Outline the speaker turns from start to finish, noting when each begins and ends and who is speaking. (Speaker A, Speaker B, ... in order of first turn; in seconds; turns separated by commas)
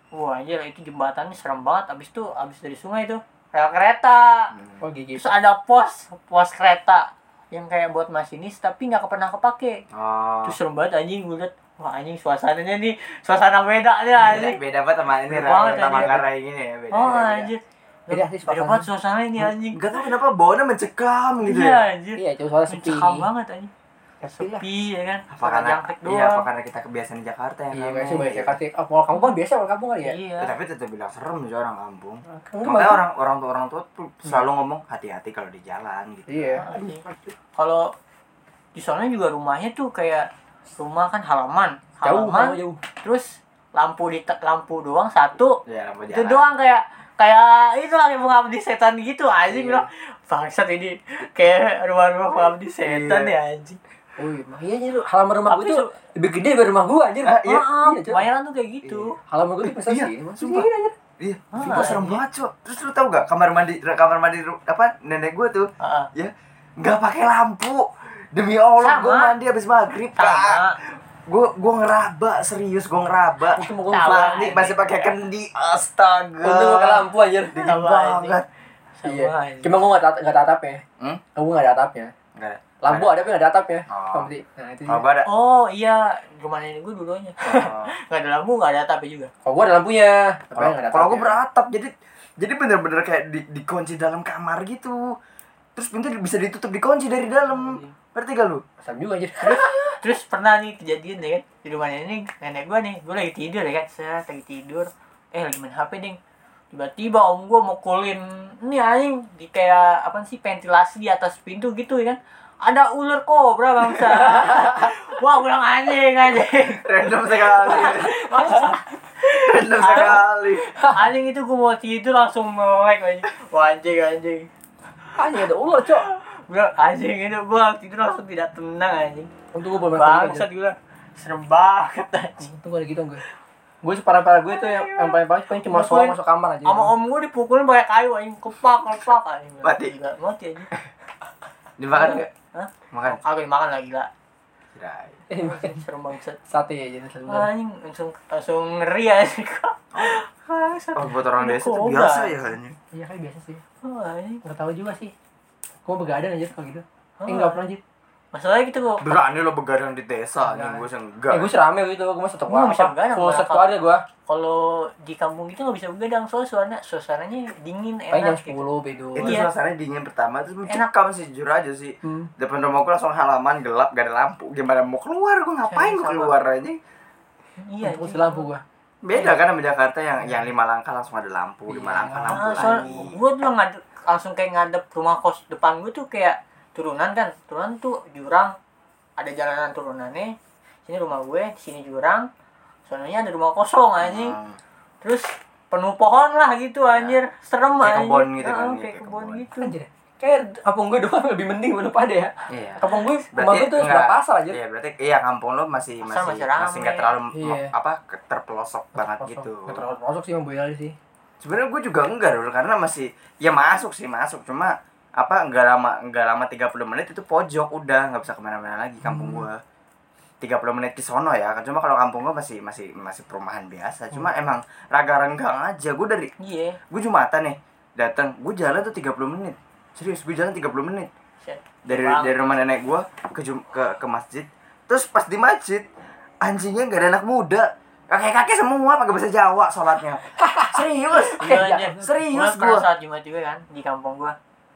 Speaker A: 0.1-4.5, Speaker B: 4.5-4.8, Speaker C: 4.8-5.3, Speaker A: 5.2-9.8, Speaker B: 9.9-10.6, Speaker A: 10.4-14.6, Speaker B: 14.2-17.5, Speaker A: 15.3-16.2, Speaker C: 15.4-16.2, Speaker A: 16.9-19.9, Speaker C: 18.1-18.9, Speaker B: 19.4-21.8, Speaker A: 21.4-23.7, Speaker C: 22.2-23.3, Speaker C: 24.2-24.6, Speaker A: 24.3-26.5, Speaker B: 25.3-28.6, Speaker C: 27.7-30.2, Speaker A: 30.0-30.6, Speaker B: 30.4-36.6, Speaker C: 32.3-33.1, Speaker C: 36.3-37.3, Speaker A: 36.6-37.0, Speaker A: 37.6-37.9, Speaker A: 38.8-45.6, Speaker C: 42.0-42.8, Speaker B: 45.7-46.5, Speaker A: 46.1-53.8, Speaker C: 49.5-49.8, Speaker B: 52.8-53.3, Speaker C: 54.2-58.2, Speaker A: 55.5-56.0, Speaker B: 57.2-57.7, Speaker A: 57.4-59.2, Speaker B: 58.8-59.1, Speaker C: 59.3-61.0, Speaker B: 59.6-60.7, Speaker B: 61.2-78.5, Speaker A: 61.5-62.2, Speaker A: 65.8-66.1, Speaker A: 68.8-69.3, Speaker A: 70.2-70.8, Speaker C: 73.5-74.6, Speaker A: 73.9-75.1, Speaker C: 76.4-77.7, Speaker A: 77.6-78.4, Speaker A: 79.0-79.8, Speaker C: 79.1-80.8, Speaker C: 81.3-82.1, Speaker B: 82.4-83.3, Speaker C: 82.8-85.0, Speaker B: 83.9-84.3, Speaker B: 84.9-85.3, Speaker A: 85.2-89.3, Speaker B: 87.4-87.9, Speaker C: 89.4-91.4, Speaker B: 90.5-95.2, Speaker B: 95.8-98.6, Speaker A: 97.5-97.9, Speaker C: 98.8-99.9, Speaker A: 99.4-106.2, Speaker A: 106.7-116.8, Speaker B: 116.8-118.3, Speaker A: 117.3-120.2, Speaker B: 119.3-120.8, Speaker A: 120.8-124.5, Speaker C: 125.2-126.1, Speaker A: 125.8-132.5, Speaker C: 129.5-130.5, Speaker C: 132.4-133.2, Speaker C: 133.8-136.9, Speaker A: 134.5-140.7, Speaker B: 139.6-139.9, Speaker B: 141.8-142.3, Speaker A: 141.9-144.1, Speaker B: 142.9-143.2, Speaker B: 144.8-145.2, Speaker C: 145.3-145.8, Speaker A: 145.4-146.4, Speaker C: 146.5-147.5, Speaker A: 147.3-152.3, Speaker B: 149.9-150.2, Speaker B: 150.9-152.8, Speaker C: 152.9-153.6, Speaker A: 153.8-154.4, Speaker C: 154.4-155.1, Speaker C: 155.8-157.8, Speaker A: 157.2-157.6, Speaker A: 158.3-159.1, Speaker B: 159.0-161.5, Speaker C: 160.4-164.1, Speaker A: 162.5-163.7, Speaker A: 164.3-168.6, Speaker C: 168.1-169.4, Speaker B: 169.2-176.8, Speaker A: 169.2-169.5, Speaker C: 172.0-172.3, Speaker A: 175.7-176.3, Speaker A: 177.6-178.5, Speaker C: 177.8-178.6, Speaker B: 179.0-183.2, Speaker A: 179.1-179.4, Speaker C: 181.7-183.1, Speaker A: 182.3-188.6, Speaker A: 189.2-192.3, Speaker A: 192.9-194.4, Speaker B: 194.0-194.6, Speaker A: 195.0-199.7, Speaker B: 196.8-197.2, Speaker B: 197.8-199.5, Speaker C: 199.6-204.6, Speaker B: 202.5-209.8, Speaker A: 206.0-207.1, Speaker C: 207.3-207.7, Speaker C: 209.0-211.0, Speaker B: 211.4-219.6, Speaker C: 219.0-219.5, Speaker B: 220.4-226.3, Speaker A: 226.4-226.8, Speaker B: 226.9-231.1, Speaker A: 231.4-232.6, Speaker B: 231.9-235.9, Speaker B: 236.4-242.9, Speaker C: 240.4-242.0, Speaker A: 241.3-244.3